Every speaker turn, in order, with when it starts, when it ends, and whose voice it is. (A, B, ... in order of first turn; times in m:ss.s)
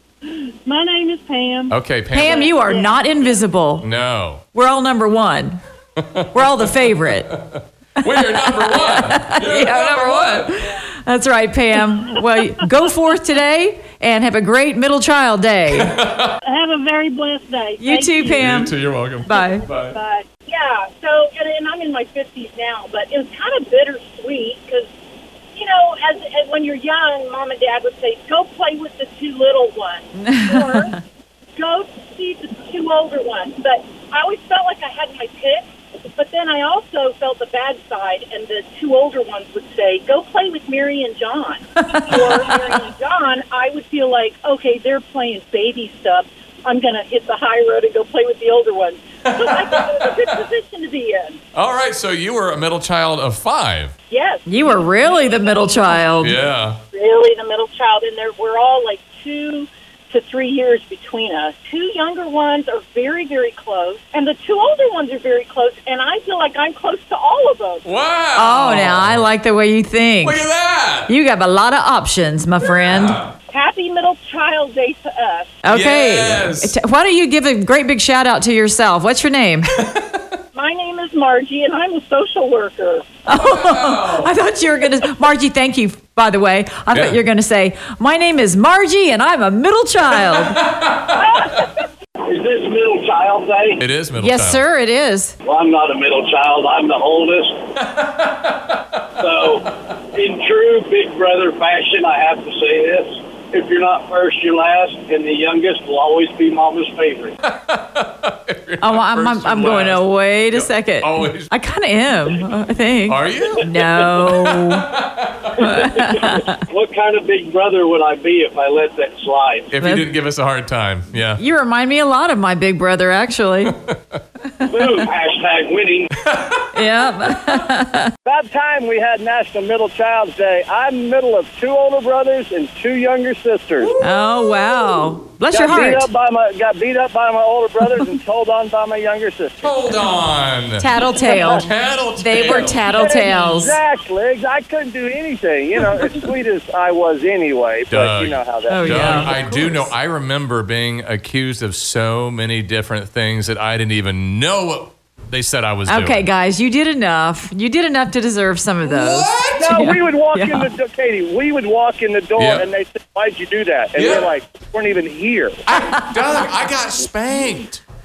0:00.6-0:03.3 A
0:01.7-0:02.5 B
0:02.1-0:03.8 C
0:03.8-0:04.4 B
0:04.5-0:05.6 C
0:06.0-0:10.5 B
0:06.3-0:07.4 C
0:08.0-0:15.9 C
0:15.7-0:16.3 B
0:16.4-0:18.5 A
0:17.8-0:19.6 C
0:18.4-0:20.0 B
0:19.3-0:24.9 A
0:25.5-0:31.0 A
0:30.2-0:31.0 C
0:31.6-0:51.4 A
0:49.3-0:49.9 B
0:51.5-0:53.9 B
0:54.1-0:56.1 A
0:54.5-0:56.4 C
0:56.2-0:56.8 B
0:56.9-1:07.8 A
1:07.8-1:09.3 B
1:08.4-1:10.5 C
1:10.2-1:11.1 B
1:11.1-1:13.2 C
1:12.8-1:13.3 B
1:13.5-1:15.6 A
1:15.6-1:19.7 C
1:15.7-1:16.7 B
1:19.9-1:20.2 B
1:20.5-1:23.1 A
1:23.2-1:30.6 C
1:23.3-1:24.3 B
1:26.9-1:27.2 B
1:30.3-1:31.1 B
1:31.1-1:31.7 A
1:32.2-1:33.8 D
1:33.8-1:34.6 B
1:34.1-1:35.3 C
1:35.4-1:37.7 D
1:37.9-1:38.3 B
1:39.2-1:47.4 D
1:47.4-1:51.5 B
1:48.8-1:54.8 C
1:53.1-1:55.7 B
1:55.6-1:56.6 C
1:55.9-1:59.7 D
1:59.7-2:01.4 B
1:59.7-2:00.1 C
2:01.3-2:03.7 C
2:03.9-2:04.2 B
2:04.8-2:06.1 D
2:06.2-2:07.0 B
2:06.7-2:08.1 C
2:08.2-2:13.9 E
2:13.8-2:14.9 B
2:14.0-2:16.1 C
2:15.5-2:19.8 E
2:19.6-2:20.9 B
2:20.8-2:23.8 C
2:21.2-2:21.6 E
2:21.4-2:22.8 B
2:22.3-2:29.5 E
2:27.9-2:36.2 B
2:28.7-2:29.9 C
2:35.8-2:40.7 C
2:38.8-2:39.8 B
2:39.5-2:45.6 E
2:42.4-2:42.6 B
2:44.0-2:44.3 B
2:45.6-2:47.8 B